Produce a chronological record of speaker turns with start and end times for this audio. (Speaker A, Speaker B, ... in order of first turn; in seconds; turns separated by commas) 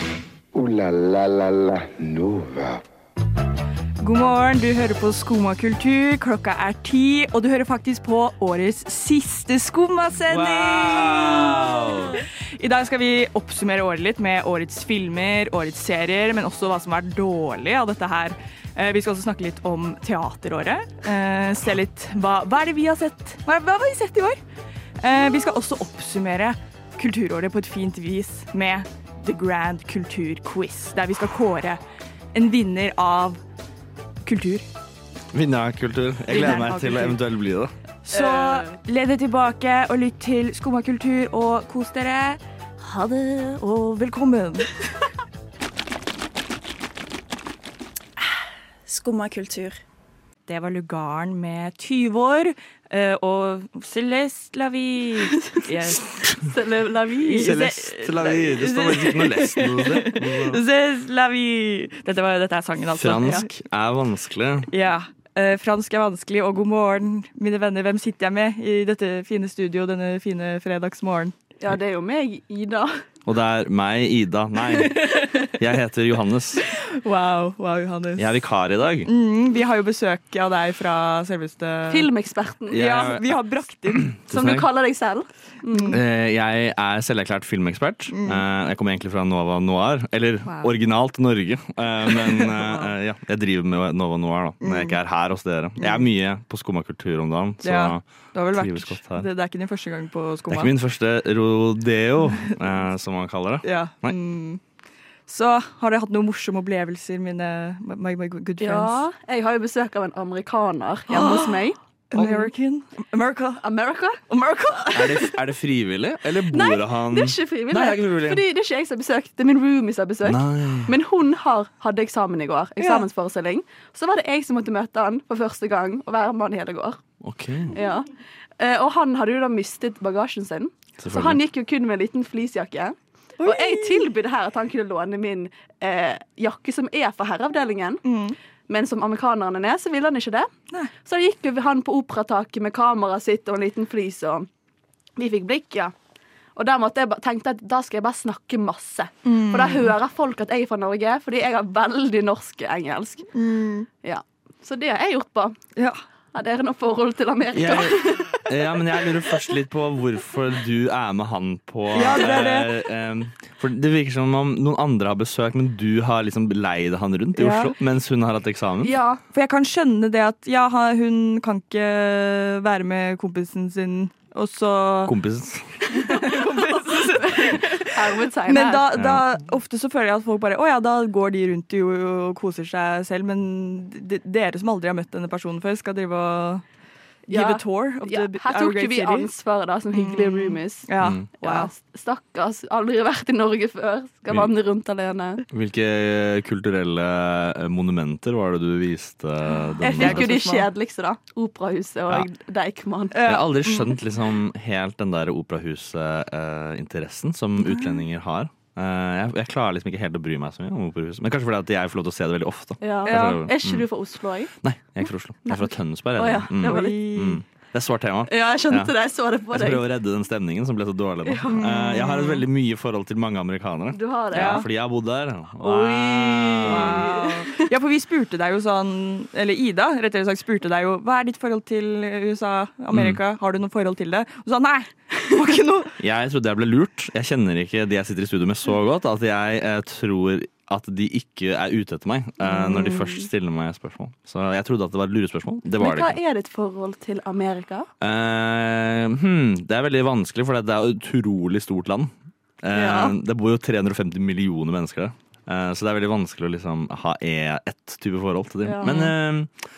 Speaker A: 0.5-2.8, Speaker B: 4.0-11.8, Speaker C: 10.3-12.2, Speaker B: 12.6-24.4, Speaker B: 25.0-31.8, Speaker B: 32.3-33.4, Speaker B: 34.2-34.7, Speaker C: 35.3-37.7, Speaker B: 36.3-37.2, Speaker B: 38.0-44.9, Speaker D: 38.1-38.7, Speaker D: 48.9-49.8, Speaker B: 50.5-56.1, Speaker D: 56.4-57.5, Speaker C: 57.2-60.6, Speaker B: 57.2-63.5, Speaker C: 62.9-64.7, Speaker B: 64.7-71.3, Speaker D: 71.6-72.9, Speaker C: 73.2-76.6, Speaker B: 74.7-75.6, Speaker B: 76.7-78.3, Speaker C: 78.2-79.1, Speaker B: 79.0-82.1, Speaker D: 81.9-83.0, Speaker C: 82.7-83.4, Speaker B: 82.7-84.1, Speaker C: 83.9-84.7, Speaker D: 84.3-86.0, Speaker B: 85.7-86.0, Speaker C: 85.9-99.2, Speaker B: 88.1-88.4, Speaker B: 90.5-90.7, Speaker B: 92.1-92.9, Speaker B: 94.6-95.0, Speaker B: 95.8-96.1, Speaker B: 97.6-100.8, Speaker C: 100.5-104.2, Speaker B: 102.3-102.6, Speaker B: 103.6-104.6, Speaker B: 105.3-109.0, Speaker D: 108.6-112.4, Speaker B: 111.1-113.6, Speaker D: 113.6-114.2, Speaker B: 114.3-115.3, Speaker C: 114.9-118.4, Speaker D: 116.5-127.0, Speaker C: 120.2-120.9, Speaker B: 122.8-123.1, Speaker C: 127.2-127.7, Speaker D: 127.7-128.1, Speaker D: 128.6-138.0, Speaker C: 131.0-131.4, Speaker B: 133.4-134.1, Speaker B: 138.0-138.4, Speaker D: 138.7-140.5, Speaker D: 141.0-144.5, Speaker D: 145.2-145.9, Speaker D: 146.6-153.3, Speaker B: 149.2-149.9, Speaker B: 153.3-153.9, Speaker D: 154.0-155.6, Speaker D: 156.3-158.3, Speaker C: 157.5-168.9, Speaker B: 161.9-162.8, Speaker B: 167.3-167.7, Speaker D: 168.8-169.2, Speaker B: 169.3-175.1, Speaker C: 175.1-175.6, Speaker D: 175.9-178.9, Speaker B: 175.9-186.6, Speaker C: 178.9-179.2, Speaker B: 187.3-189.3, Speaker D: 187.3-190.9, Speaker B: 189.9-191.7, Speaker C: 191.0-191.2, Speaker D: 191.4-195.4, Speaker C: 195.5-200.3, Speaker B: 199.5-200.7, Speaker D: 199.8-203.2, Speaker B: 203.1-204.1, Speaker C: 203.2-213.8, Speaker B: 207.6-208.0, Speaker D: 212.8-214.5, Speaker B: 213.0-213.4, Speaker C: 214.6-218.9, Speaker D: 215.0-217.3, Speaker B: 216.6-217.4, Speaker D: 218.2-219.9, Speaker C: 219.5-227.1, Speaker D: 221.2-221.7, Speaker B: 221.5-222.4, Speaker D: 223.9-224.7, Speaker B: 224.3-224.7, Speaker D: 225.6-227.6, Speaker B: 226.6-235.9, Speaker C: 232.9-233.2, Speaker C: 236.0-246.2, Speaker D: 242.4-243.2, Speaker D: 245.8-247.9, Speaker C: 248.0-259.5, Speaker D: 252.7-253.2, Speaker D: 258.6-258.9, Speaker B: 258.8-259.1